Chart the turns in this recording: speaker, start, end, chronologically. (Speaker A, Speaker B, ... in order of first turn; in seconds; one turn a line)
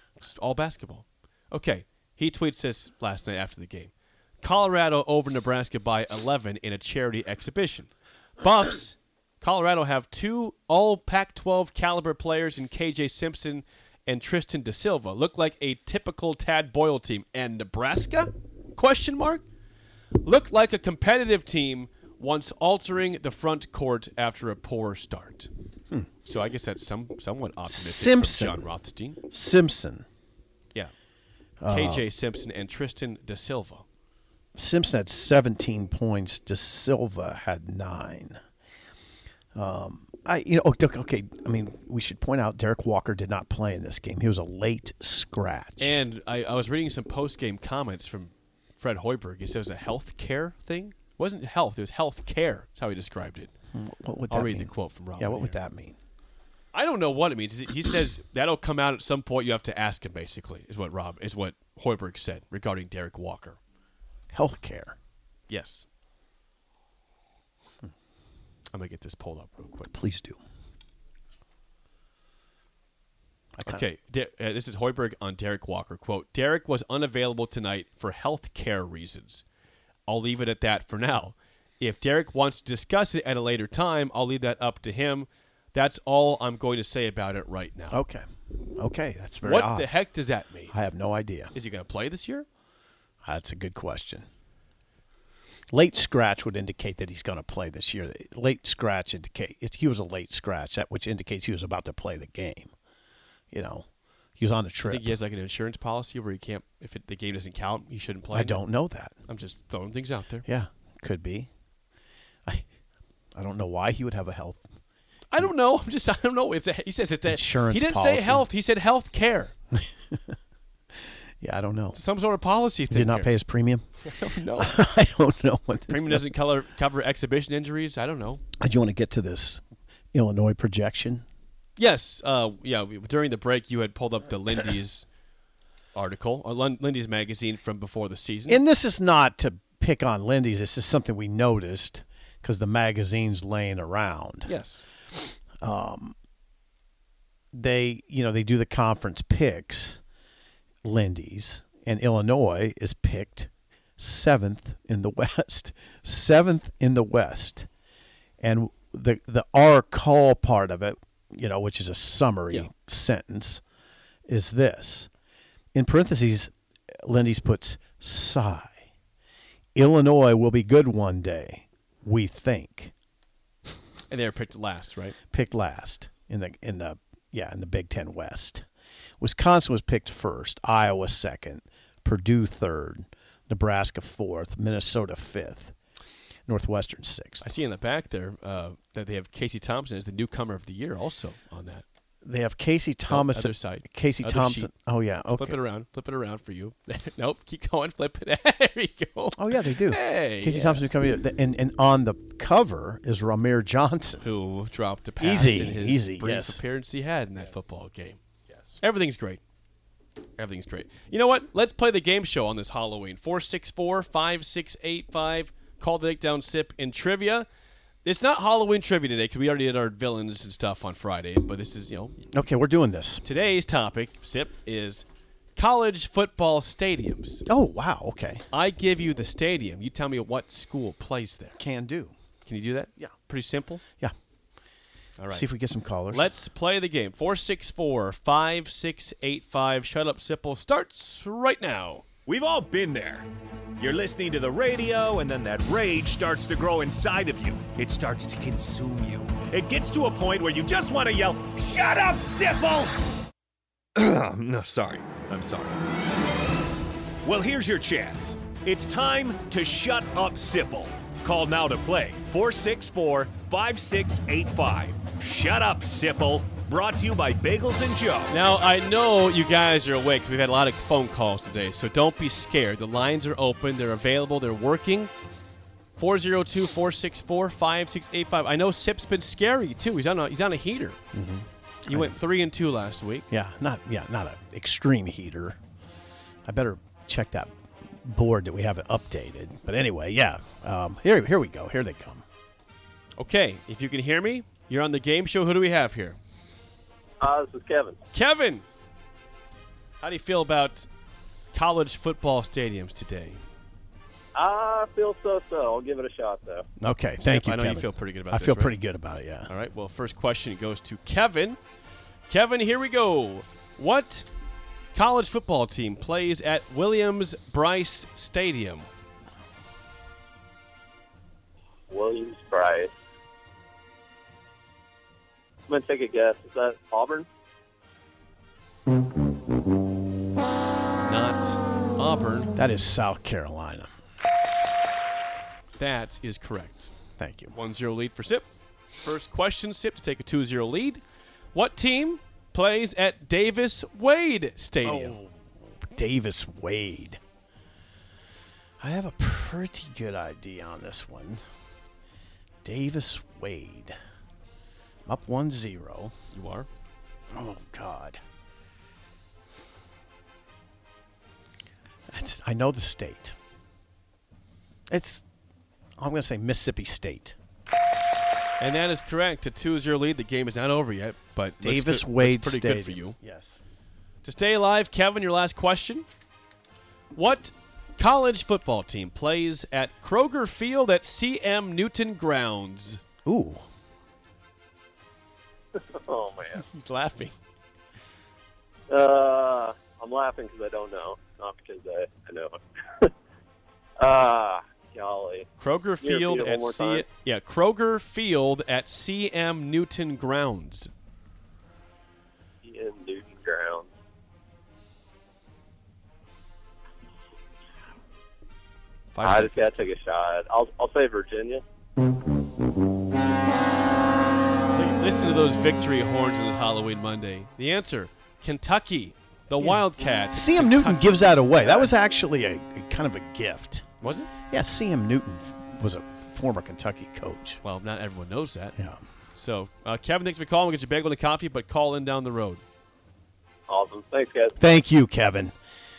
Speaker A: 0.2-19.4
Speaker A: 20.2-25.5
Speaker A: 26.2-29.2
Speaker B: 27.6-28.7
Speaker B: 29.3-30.1
Speaker B: 31.6-32.1
Speaker A: 31.6-33.8
Speaker B: 34.5-38.4
Speaker B: 39.5-46.0
Speaker A: 45.8-53.5
Speaker B: 53.7-56.0
Speaker A: 54.3-55.5
Speaker A: 56.7-63.6
Speaker B: 64.3-65.0
Speaker A: 65.5-65.8
Speaker A: 68.7-69.9
Speaker B: 69.9-70.4
Speaker B: 73.5-73.8
Speaker A: 73.6-79.4
Speaker A: 80.1-88.0
Speaker B: 87.9-89.9
Speaker A: 89.4-90.7
Speaker B: 90.7-91.5
Speaker A: 91.5-92.5
Speaker B: 93.2-94.2
Speaker B: 95.7-102.7
Speaker B: 103.5-103.8
Speaker B: 104.4-105.2
Speaker A: 104.8-108.6
Speaker B: 108.3-109.1
Speaker A: 109.2-110.5
Speaker B: 110.5-111.5
Speaker B: 113.3-114.6
Speaker A: 115.3-119.5
Speaker B: 117.3-118.5
Speaker B: 119.7-120.3
Speaker B: 121.4-122.0
Speaker A: 121.9-123.3
Speaker B: 122.9-126.3
Speaker A: 124.0-124.8
Speaker A: 125.9-128.4
Speaker B: 128.6-129.6
Speaker B: 130.1-131.2
Speaker A: 131.8-135.1
Speaker A: 135.9-138.6
Speaker B: 138.5-144.5
Speaker A: 144.4-144.8
Speaker B: 145.6-146.1
Speaker B: 147.5-150.0
Speaker B: 150.8-157.7
Speaker B: 158.4-163.6
Speaker B: 164.3-165.1
Speaker B: 165.7-166.5
Speaker B: 167.0-168.8
Speaker B: 169.7-172.9
Speaker A: 174.1-175.2
Speaker B: 175.3-178.7
Speaker B: 179.2-185.7
Speaker B: 186.5-187.5
Speaker A: 187.4-191.8
Speaker B: 192.2-195.6
Speaker A: 193.1-194.7
Speaker A: 195.3-200.8
Speaker B: 199.3-204.2
Speaker A: 204.2-208.2
Speaker B: 205.2-206.6
Speaker A: 208.8-209.4
Speaker A: 210.4-217.5
Speaker A: 218.0-222.2
Speaker B: 222.3-223.2
Speaker A: 223.2-225.0
Speaker A: 225.6-227.4
Speaker B: 227.5-228.4
Speaker A: 228.5-231.6
Speaker B: 231.5-232.1
Speaker A: 232.4-233.8
Speaker A: 235.2-235.5
Speaker B: 235.3-236.3
Speaker A: 236.1-242.0
Speaker C: 242.2-253.0
Speaker C: 253.9-255.8
Speaker C: 257.2-268.3
Speaker A: 268.3-275.1
Speaker A: 276.0-281.0
Speaker B: 281.1-282.1
Speaker A: 281.9-283.2
Speaker B: 283.3-285.6
Speaker B: 286.4-292.2
Speaker A: 293.2-296.2
Speaker D: 297.2-298.0
Speaker A: 298.1-298.6
Speaker A: 300.0-300.9
Speaker A: 301.5-303.4
Speaker D: 304.3-306.6
Speaker B: 306.8-309.5
Speaker A: 307.2-308.8
Speaker A: 309.5-311.6
Speaker A: 312.3-314.3
Speaker A: 314.9-318.9
Speaker D: 321.9-322.9
Speaker D: 325.7-327.3
Speaker A: 331.0-332.5
Speaker B: 332.6-333.9
Speaker A: 335.8-336.9
Speaker B: 337.2-337.6
Speaker A: 337.5-338.4
Speaker A: 339.0-341.0
Speaker A: 341.5-345.2
Speaker B: 344.8-347.2
Speaker B: 348.8-351.4
Speaker B: 352.6-354.0
Speaker B: 355.1-356.1
Speaker A: 356.3-356.7
Speaker B: 357.3-358.2
Speaker B: 362.1-363.3
Speaker B: 364.9-365.2
Speaker B: 366.0-367.4
Speaker A: 368.6-373.1
Speaker B: 371.6-373.6
Speaker A: 374.2-376.1
Speaker A: 377.1-383.0
Speaker B: 383.2-383.6
Speaker D: 385.8-386.6
Speaker A: 386.6-387.4
Speaker D: 388.9-393.1
Speaker D: 394.0-395.4
Speaker A: 395.6-400.9
Speaker D: 396.0-397.0
Speaker D: 402.6-403.9
Speaker A: 409.1-409.8
Speaker D: 409.2-411.6
Speaker A: 414.7-421.9
Speaker B: 419.6-423.8
Speaker A: 424.0-424.3
Speaker B: 424.5-427.6
Speaker A: 427.6-428.8
Speaker A: 429.3-432.6
Speaker D: 433.7-434.5
Speaker B: 434.6-435.5